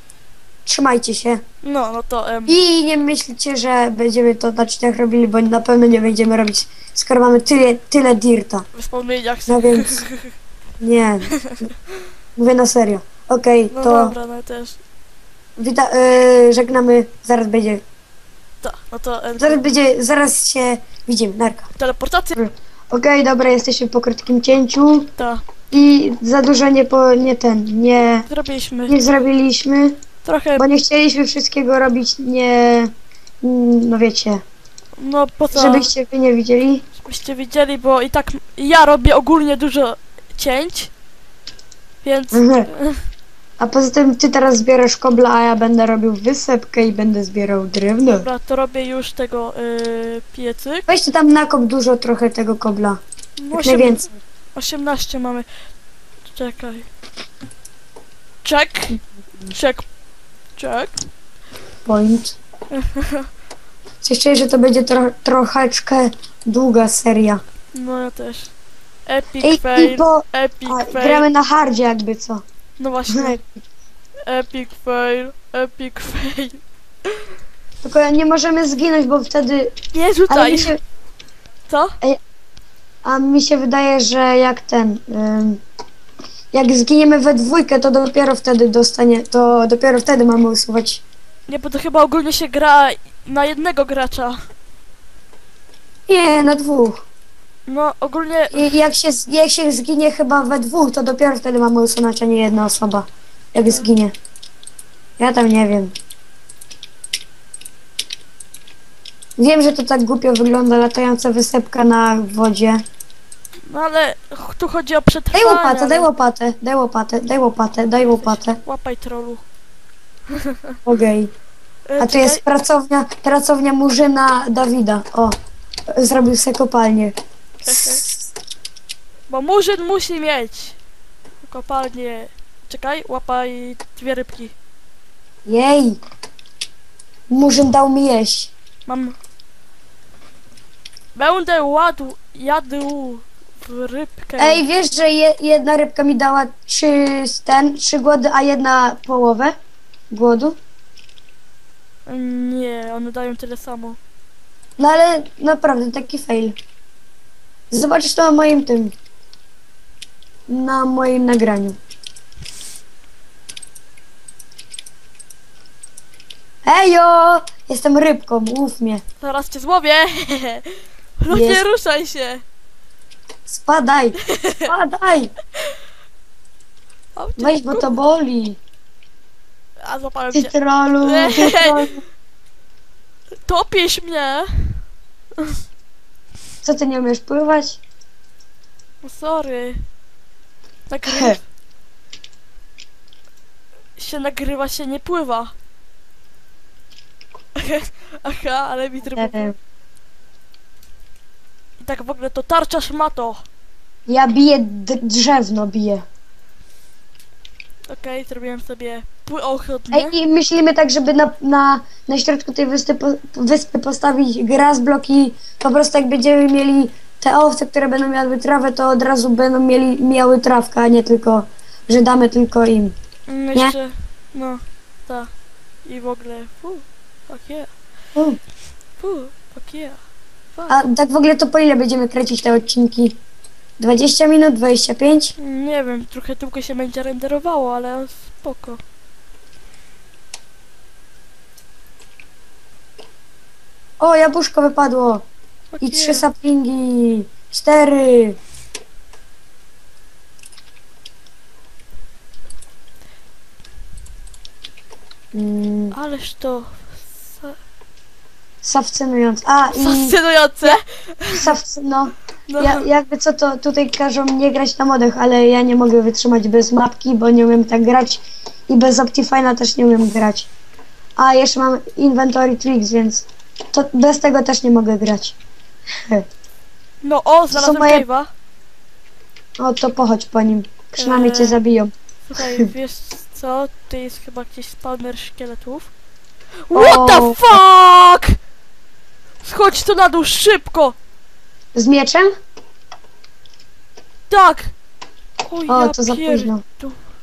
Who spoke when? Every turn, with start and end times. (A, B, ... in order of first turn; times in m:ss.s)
0:00.6-0:01.4 A
0:01.6-0:02.6 B
0:02.5-0:08.6 A
0:08.7-0:10.3 B
0:09.5-0:10.0 A
0:10.8-0:11.7 A
0:11.3-0:11.6 B
0:12.4-0:14.1 A
0:13.7-0:14.8 B
0:15.6-0:17.8 A
0:18.6-0:19.6 B
0:19.4-0:21.7 A
0:21.8-0:22.4 B
0:22.4-0:25.1 A
0:25.2-0:25.4 B
0:25.7-0:28.3 A
0:28.3-0:29.0 B
0:28.9-0:30.0 A
0:30.2-0:30.6 B
0:30.6-0:32.9 A
0:33.4-0:34.4 A
0:35.0-0:35.9 B
0:35.5-0:36.8 A
0:37.0-0:40.9 B
0:42.0-0:43.0 B
0:42.3-0:42.7 A
0:43.6-0:48.3 A
0:48.1-0:50.8 B
0:50.9-0:53.0 A
0:53.4-0:55.5 B
0:53.5-0:54.1 A
0:56.3-0:56.9 B
0:58.4-0:59.0 B
0:59.5-0:59.8 B
1:00.6-1:01.0 B
1:01.8-1:02.4 A
1:02.7-1:03.3 B
1:04.0-1:07.4 A
1:07.7-1:08.5 B
1:09.0-1:11.2 B
1:09.4-1:12.4 A
1:12.8-1:13.4 B
1:13.1-1:13.5 A
1:14.2-1:17.3 B
1:17.8-1:19.7 A
1:19.9-1:20.8 B
1:20.3-1:20.8 A
1:21.7-1:22.0 B
1:23.0-1:25.6 A
1:26.5-1:31.0 A
1:31.5-1:34.4 B
1:36.1-1:37.0 A
1:37.7-1:38.7 B
1:38.5-1:44.1 A
1:45.2-1:45.9 A
1:49.4-1:52.8 A
1:53.6-1:56.1 B
1:55.3-1:58.6 A
1:58.1-1:59.4 B
2:00.3-2:00.8 B
2:00.8-2:01.3 A
2:01.9-2:02.4 B
2:02.0-2:05.3 A
2:05.9-2:07.1 A
2:07.6-2:08.0 B
2:07.7-2:08.1 A
2:09.3-2:10.8 B
2:11.4-2:14.5 B
2:15.4-2:16.0 A
2:17.3-2:18.5 A
2:18.8-2:19.2 B
2:21.1-2:24.6 B
2:24.4-2:29.5 A
2:30.1-2:30.6 A
2:32.0-2:34.0 B
2:34.8-2:36.6 A
2:37.7-2:38.9 A
2:40.5-2:41.8 A
2:46.6-2:49.0 A
2:49.2-2:52.4 B
2:51.3-2:51.6 A
2:53.5-2:55.3 A
2:54.2-2:54.7 B
2:57.2-2:57.9 B
2:57.4-2:58.6 A
2:59.8-3:02.0 B
3:00.3-3:02.0 A
3:03.4-3:04.8 B
3:06.6-3:07.8 A
3:09.0-3:09.8 B
3:10.9-3:11.4 B
3:11.0-3:11.4 A
3:14.0-3:15.5 B
3:17.6-3:19.5 B
3:19.1-3:19.5 A
3:21.8-3:23.4 B
3:24.1-3:26.0 A
3:27.9-3:30.1 B
3:29.9-3:42.9 A
3:43.3-3:45.3 B
3:45.8-3:47.7 B
3:49.0-3:50.0 B
3:50.7-3:53.2 A
3:53.8-3:55.3 A
3:55.4-3:58.8 B
4:04.0-4:05.2 A
4:05.7-4:06.2 B
4:05.8-4:08.4 A
4:15.3-4:16.0 A
4:15.9-4:17.6 B
4:18.6-4:20.8 A
4:19.7-4:21.5 B
4:21.3-4:30.5 A
4:22.5-4:22.8 B
4:31.2-4:35.4 A
4:37.0-4:38.3 B
4:37.5-4:38.0 A
4:39.6-4:42.7 A
4:40.9-4:41.6 B
4:42.3-4:45.9 B
4:46.7-4:48.4 B
4:46.7-4:47.4 A
4:49.4-4:51.0 B
4:51.7-4:52.3 A
4:54.3-4:54.7 B
4:55.4-4:57.0 B
4:55.7-4:56.6 A